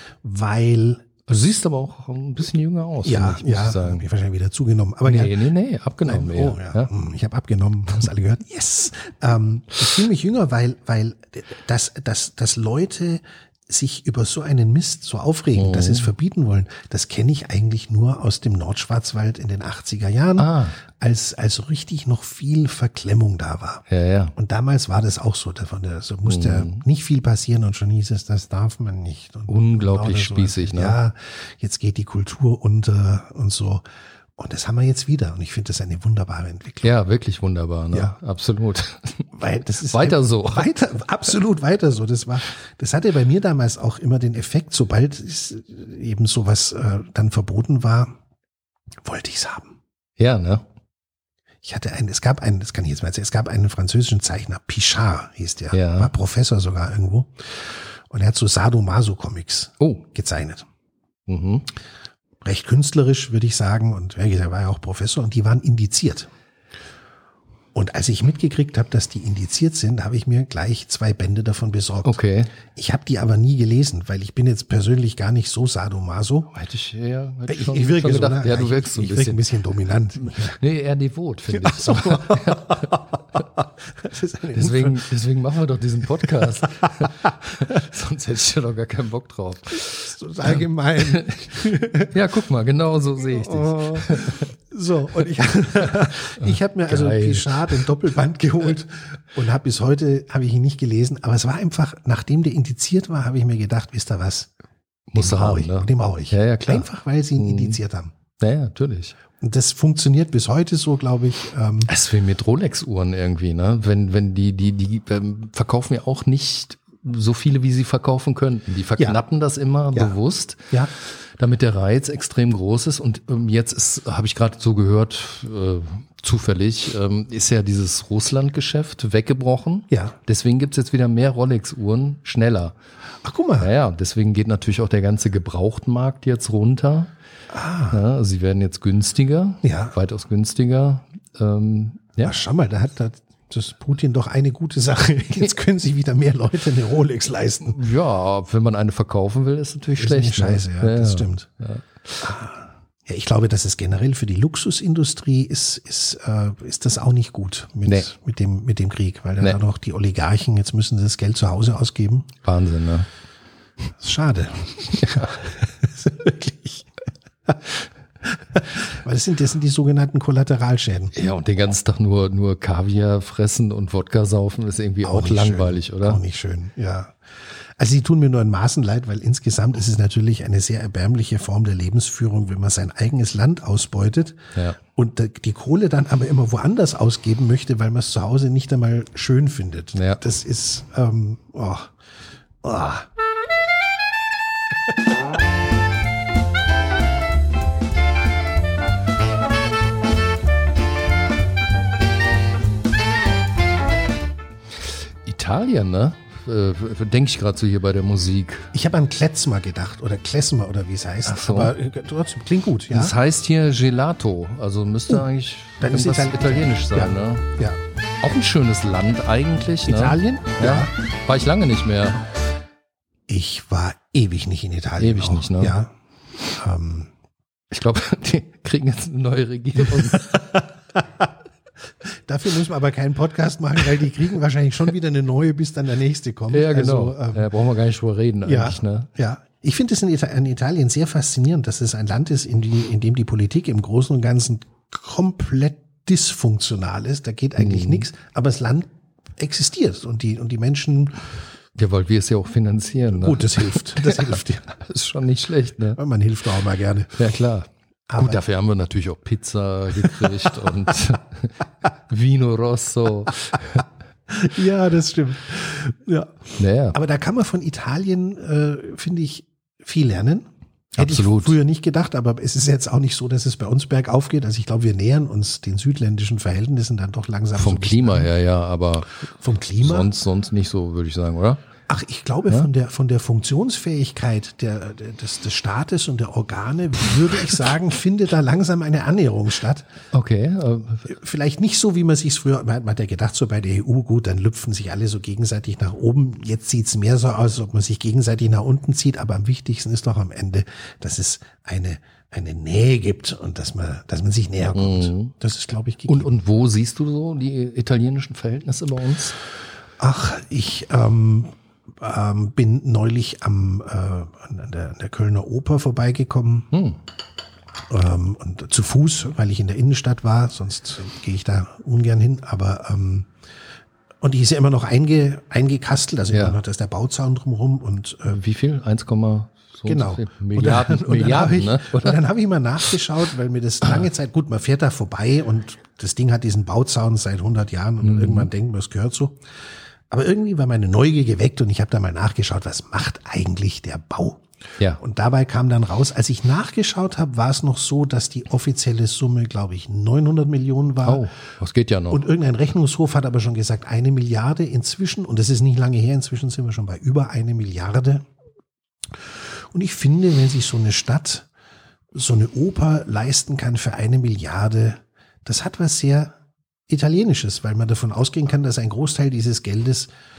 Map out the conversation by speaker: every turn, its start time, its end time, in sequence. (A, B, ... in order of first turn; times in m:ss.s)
0:00.2-0:01.1 A
0:01.3-0:04.0 B
0:03.0-0:05.4 A
0:05.0-0:06.9 B
0:06.0-0:23.8 A
0:15.6-0:16.1 B
0:20.4-0:20.8 B
0:23.9-0:24.3 B
0:24.4-0:33.8 A
0:26.2-0:26.8 B
0:29.5-0:31.0 B
0:34.4-0:36.9 A
0:36.8-0:40.9 B
0:39.3-0:48.2 A
0:49.0-0:49.8 A
0:50.2-0:50.6 B
0:51.6-1:00.7 A
0:55.7-0:56.1 B
1:01.3-1:01.7 B
1:02.4-1:06.3 A
1:07.8-1:16.5 A
1:12.0-1:12.6 B
1:16.5-1:19.4 B
1:17.5-1:20.6 A
1:20.4-1:23.0 B
1:21.5-1:25.0 A
1:24.5-1:34.5 B
1:26.4-1:27.1 A
1:29.9-1:32.1 A
1:33.2-1:44.5 A
1:35.8-1:37.9 B
1:45.1-1:47.8 B
1:45.2-1:48.1 A
1:48.4-1:49.2 B
1:49.4-1:51.9 A
1:51.9-2:12.8 B
2:13.2-2:13.7 A
2:13.6-2:17.1 B
2:17.5-2:18.0 A
2:17.9-2:22.4 B
2:19.6-2:20.0 A
2:22.2-2:27.8 A
2:27.7-2:32.3 B
2:30.0-2:31.5 A
2:32.2-2:42.3 A
2:42.4-2:43.1 B
2:44.0-2:46.9 A
2:45.0-2:45.3 B
2:48.2-2:51.1 A
2:51.1-2:56.2 B
2:55.0-2:57.2 A
2:57.8-3:11.9 A
3:09.9-3:10.2 B
3:12.6-3:13.1 A
3:25.2-3:28.7 B
3:28.7-3:33.2 A
3:31.3-3:31.7 B
3:32.9-3:37.4 B
3:35.8-3:37.8 A
3:38.2-3:42.2 B
3:39.9-3:40.9 A
3:43.3-3:45.9 A
3:45.0-3:45.8 B
3:46.5-3:47.1 A
3:47.7-3:50.6 B
3:49.9-3:51.3 A
3:52.0-3:57.5 A
3:56.5-3:59.1 B
3:58.4-4:11.3 A
4:07.6-4:08.1 B
4:11.8-4:16.0 B
4:13.1-4:14.7 A
4:16.0-4:17.2 A
4:17.2-4:21.6 B
4:18.1-4:18.4 A
4:20.0-4:20.5 A
4:22.1-4:23.8 B
4:24.3-4:38.3 A
4:26.6-4:27.0 B
4:31.0-4:31.6 B
4:37.6-4:39.2 B
4:39.3-4:40.1 A
4:39.8-4:41.6 B
4:41.9-4:49.9 A
4:50.1-4:51.1 B
4:51.1-5:06.3 A
5:04.7-5:05.3 B
5:06.1-5:09.4 B
5:10.0-5:16.7 A
5:16.7-5:17.0 B
5:17.9-5:23.3 A
5:24.2-5:28.4 A
5:26.3-5:26.6 B
5:28.3-5:32.2 B
5:29.9-5:39.4 A
5:38.0-5:38.5 B
5:40.1-5:44.4 A
5:45.0-5:51.3 A
5:51.0-5:52.2 B
5:52.1-5:58.3 A
5:59.1-6:01.5 A
6:02.1-6:10.1 A